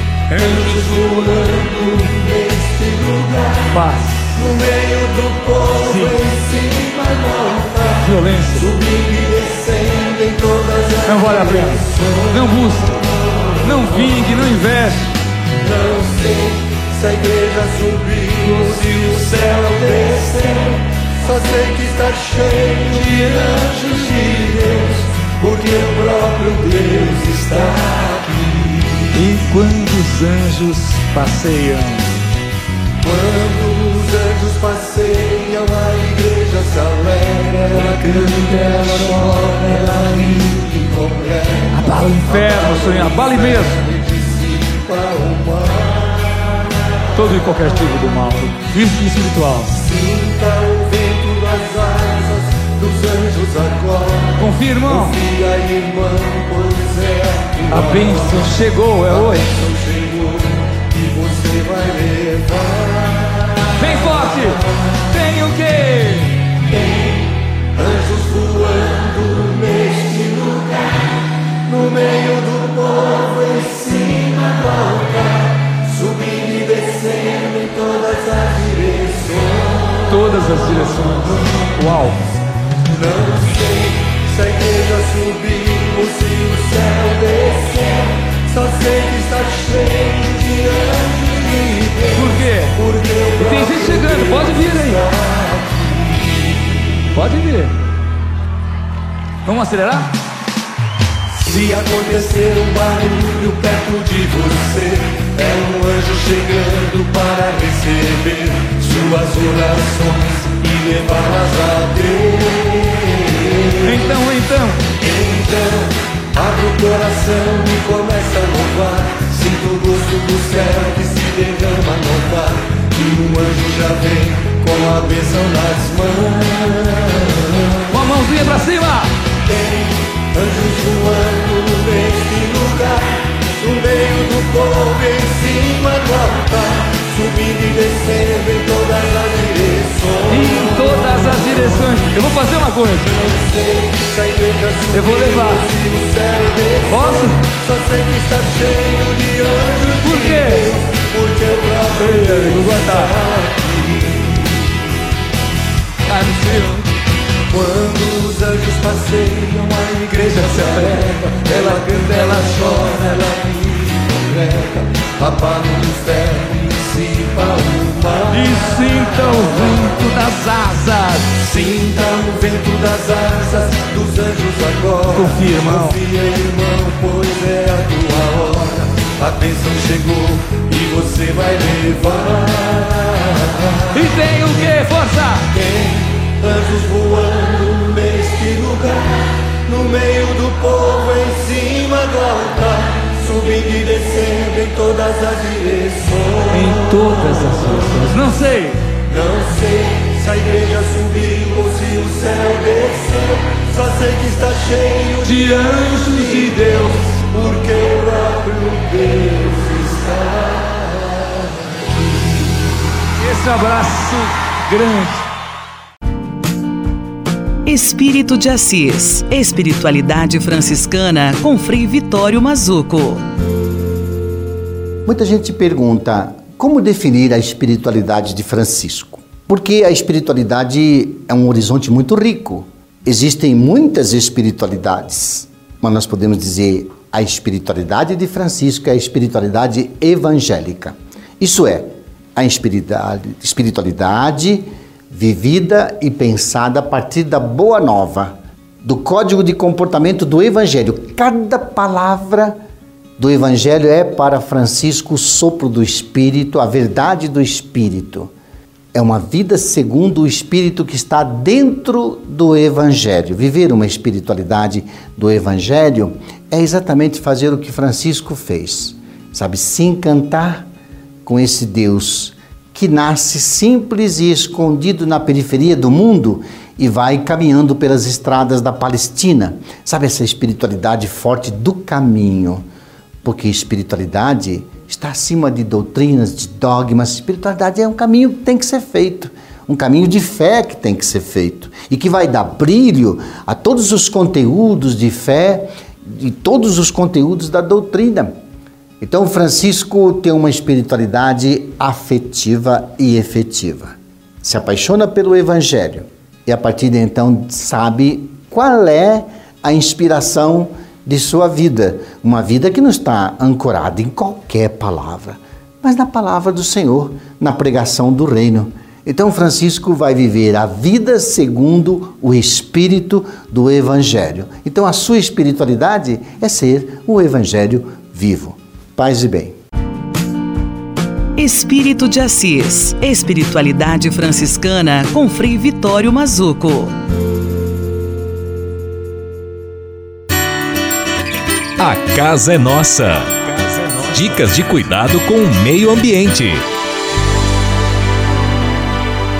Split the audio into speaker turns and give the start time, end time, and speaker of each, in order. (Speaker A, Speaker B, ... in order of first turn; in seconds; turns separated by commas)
Speaker A: 0.3-0.7, Speaker B: 0.7-3.5, Speaker A: 3.7-4.3, Speaker B: 4.4-8.0, Speaker A: 5.8-6.2, Speaker A: 8.0-8.7, Speaker B: 8.9-11.5, Speaker A: 11.1-15.2, Speaker B: 15.9-28.5, Speaker A: 29.1-32.1, Speaker B: 33.0-37.7, Speaker A: 37.8-39.4, Speaker B: 39.4-41.9, Speaker A: 41.7-43.9, Speaker B: 44.6-45.7, Speaker A: 47.1-49.8, Speaker B: 49.9-54.4, Speaker A: 54.4-55.2, Speaker B: 55.3-57.8, Speaker A: 57.7-59.7, Speaker B: 59.6-60.5, Speaker B: 61.1-62.7, Speaker A: 63.8-66.5, Speaker B: 68.1-70.4, Speaker B: 71.7-74.1, Speaker B: 76.0-79.3, Speaker A: 80.1-82.2, Speaker B: 83.5-83.9, Speaker B: 84.4-87.8, Speaker B: 88.5-91.6, Speaker A: 92.1-92.8, Speaker B: 93.0-93.8, Speaker A: 93.3-95.1, Speaker A: 97.1-97.8, Speaker A: 99.5-100.1, Speaker B: 101.5-112.7, Speaker A: 113.8-114.8, Speaker B: 115.1-115.8, Speaker B: 116.4-127.1, Speaker A: 127.9-129.1, Speaker B: 130.4-132.9, Speaker B: 133.6-140.4, Speaker A: 140.3-143.3, Speaker B: 143.6-152.8, Speaker A: 144.9-145.7, Speaker A: 146.8-147.5, Speaker A: 150.0-150.7, Speaker A: 151.9-153.2, Speaker A: 156.1-156.9, Speaker B: 157.5-160.9, Speaker A: 160.0-163.0, Speaker B: 161.5-164.7, Speaker B: 165.2-168.6, Speaker A: 168.3-171.5, Speaker B: 171.5-182.9, Speaker A: 175.1-176.0, Speaker A: 183.9-185.5, Speaker B: 186.5-188.9, Speaker B: 189.7-196.4, Speaker A: 196.5-198.8, Speaker B: 199.2-203.2, Speaker B: 203.8-205.2, Speaker A: 205.2-206.7, Speaker B: 207.3-210.1, Speaker A: 213.2-215.2, Speaker C: 217.7-223.2, Speaker D: 225.1-252.6, Speaker D: 253.2-258.3, Speaker D: 258.9-270.7, Speaker D: 271.2-282.6, Speaker D: 283.2-298.4, Speaker D: 299.0-329.6, Speaker C: 331.4-336.9, Speaker E: 341.8-343.3, Speaker E: 344.1-346.7